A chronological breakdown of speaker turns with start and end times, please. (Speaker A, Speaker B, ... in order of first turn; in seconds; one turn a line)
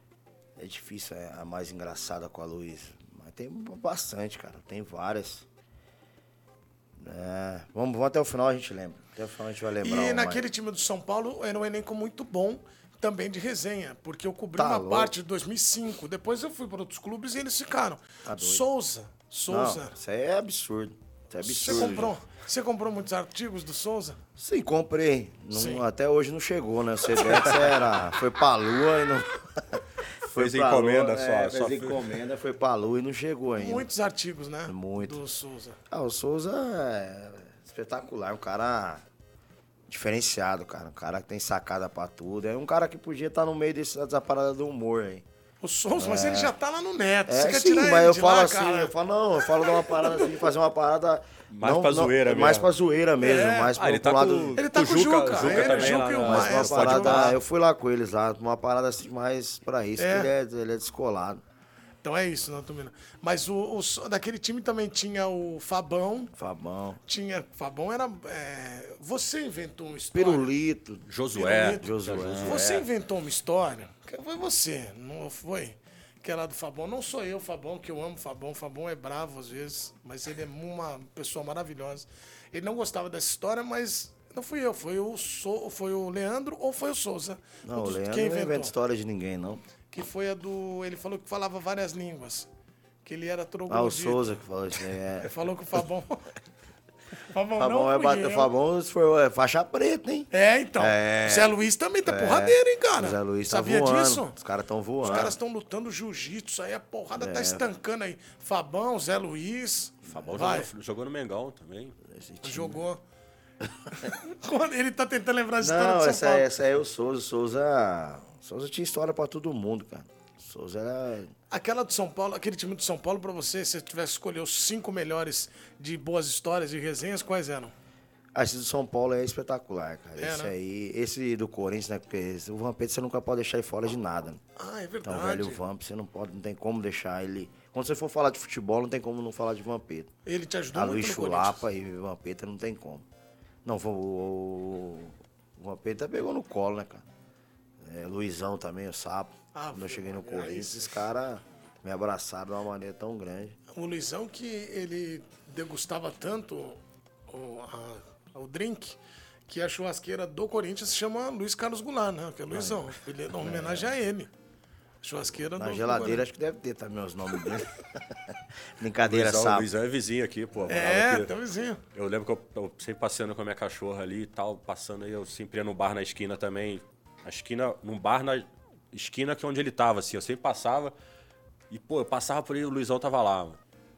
Speaker A: 0.6-5.5
Speaker A: 7.0-10.4
Speaker B: 9.8-19.9
Speaker A: 14.6-15.1
Speaker A: 18.2-18.6
Speaker A: 19.5-22.1
Speaker B: 21.4-24.2
Speaker C: 21.7-22.0
Speaker A: 24.4-33.9
Speaker B: 25.5-25.8
Speaker C: 30.3-32.0
Speaker B: 33.6-35.8
Speaker A: 34.7-35.2
Speaker A: 35.9-39.0
Speaker A: 39.9-45.2
Speaker B: 45.6-48.9
Speaker A: 45.9-46.5
Speaker A: 47.3-54.6
Speaker B: 49.6-50.3
Speaker C: 51.5-52.7
Speaker B: 53.2-53.7
Speaker C: 53.7-57.3
Speaker B: 54.5-57.4
Speaker A: 55.4-61.4
Speaker B: 60.0-60.3
Speaker B: 62.0-66.3
Speaker A: 66.3-67.0
Speaker B: 67.0-70.5
Speaker A: 70.1-71.0
Speaker C: 71.1-72.9
Speaker B: 71.3-88.7
Speaker A: 71.8-72.7
Speaker A: 87.6-89.6
Speaker B: 89.9-92.5
Speaker B: 93.0-94.2
Speaker A: 93.7-95.3
Speaker B: 95.2-96.3
Speaker B: 97.2-98.5
Speaker A: 97.6-101.5
Speaker B: 100.3-104.3
Speaker A: 102.0-105.4
Speaker B: 105.0-110.7
Speaker A: 107.2-107.7
Speaker A: 110.0-110.5
Speaker C: 110.1-112.0
Speaker A: 112.0-112.8
Speaker B: 112.4-113.0
Speaker B: 113.9-116.5
Speaker A: 115.6-121.3
Speaker B: 121.5-127.7
Speaker A: 128.3-134.4
Speaker B: 130.2-130.5
Speaker B: 134.6-135.6
Speaker A: 135.0-140.1
Speaker B: 140.2-141.6
Speaker A: 140.7-143.1
Speaker A: 143.6-147.0
Speaker A: 147.8-153.6
Speaker B: 149.5-150.9
Speaker B: 153.7-164.3
Speaker A: 162.5-162.8
Speaker A: 163.4-163.9
Speaker B: 165.0-166.2
Speaker A: 165.6-169.7
Speaker C: 169.0-171.3
Speaker B: 170.7-171.8
Speaker C: 171.9-180.9
Speaker C: 181.7-183.6